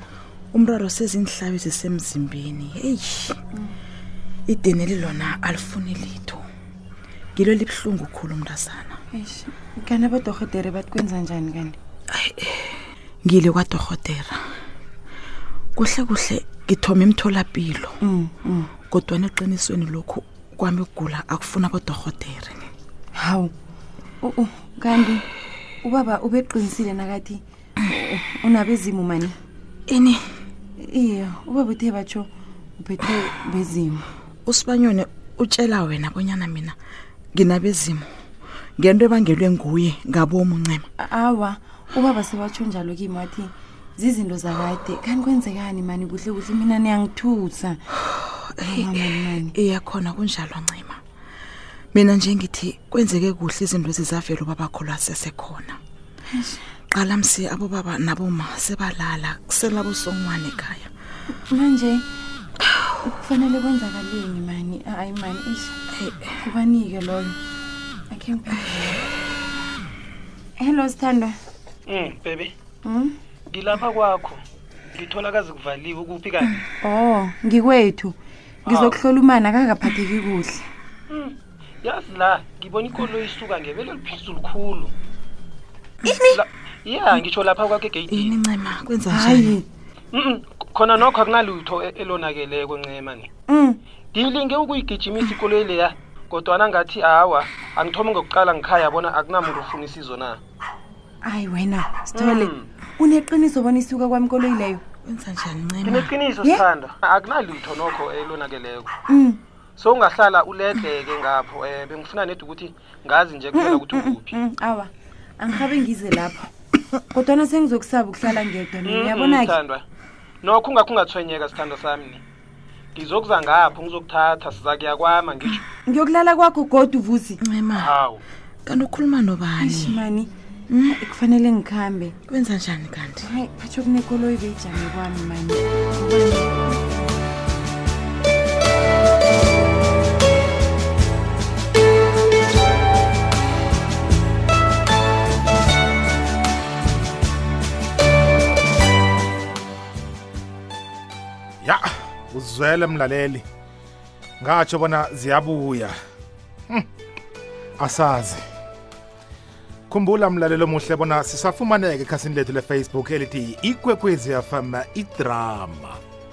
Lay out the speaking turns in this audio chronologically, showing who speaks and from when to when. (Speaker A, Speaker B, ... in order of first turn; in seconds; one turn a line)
Speaker A: 0.5-3.4
Speaker A: 4.5-6.4
Speaker A: 7.3-9.0
Speaker B: 9.1-11.8
Speaker A: 12.1-14.4
Speaker A: 15.8-17.9
Speaker B: 18.0-18.7
Speaker A: 18.9-22.7
Speaker B: 23.2-23.5
Speaker B: 24.2-25.2
Speaker B: 25.8-29.3
Speaker A: 29.9-30.2
Speaker B: 30.8-34.0
Speaker A: 34.5-36.7
Speaker A: 37.4-38.1
Speaker A: 38.8-40.8
Speaker B: 41.0-47.8
Speaker A: 48.1-51.0
Speaker B: 48.6-49.5
Speaker A: 51.9-55.8
Speaker B: 56.3-56.6
Speaker A: 56.9-60.9
Speaker B: 61.5-62.0
Speaker B: 63.0-65.7
Speaker B: 66.4-67.3
Speaker B: 68.1-69.0
Speaker B: 70.6-71.3
Speaker C: 71.9-72.5
Speaker B: 72.8-73.1
Speaker C: 73.5-74.4
Speaker C: 74.9-76.6
Speaker B: 76.8-78.2
Speaker C: 78.6-79.0
Speaker B: 78.7-80.6
Speaker C: 81.1-84.9
Speaker A: 86.0-86.4
Speaker C: 86.0-88.4
Speaker A: 88.1-89.6
Speaker B: 89.1-89.6
Speaker C: 90.1-93.3
Speaker B: 93.5-93.8
Speaker C: 94.1-100.4
Speaker B: 101.2-104.8
Speaker C: 102.1-102.7
Speaker A: 105.0-106.1
Speaker C: 105.8-108.9
Speaker B: 109.1-109.4
Speaker C: 109.8-114.3
Speaker B: 113.5-116.5
Speaker B: 117.1-119.5
Speaker C: 118.8-119.8
Speaker C: 120.4-122.2
Speaker C: 122.9-125.6
Speaker B: 125.8-127.4
Speaker A: 127.4-127.9
Speaker C: 127.7-128.2
Speaker A: 128.7-129.9
Speaker B: 129.6-130.3
Speaker B: 130.9-132.2
Speaker A: 132.3-133.2
Speaker B: 133.2-136.9
Speaker D: 151.6-153.4
Speaker D: 154.4-155.9
Speaker D: 157.8-158.4
Speaker D: 159.9-166.0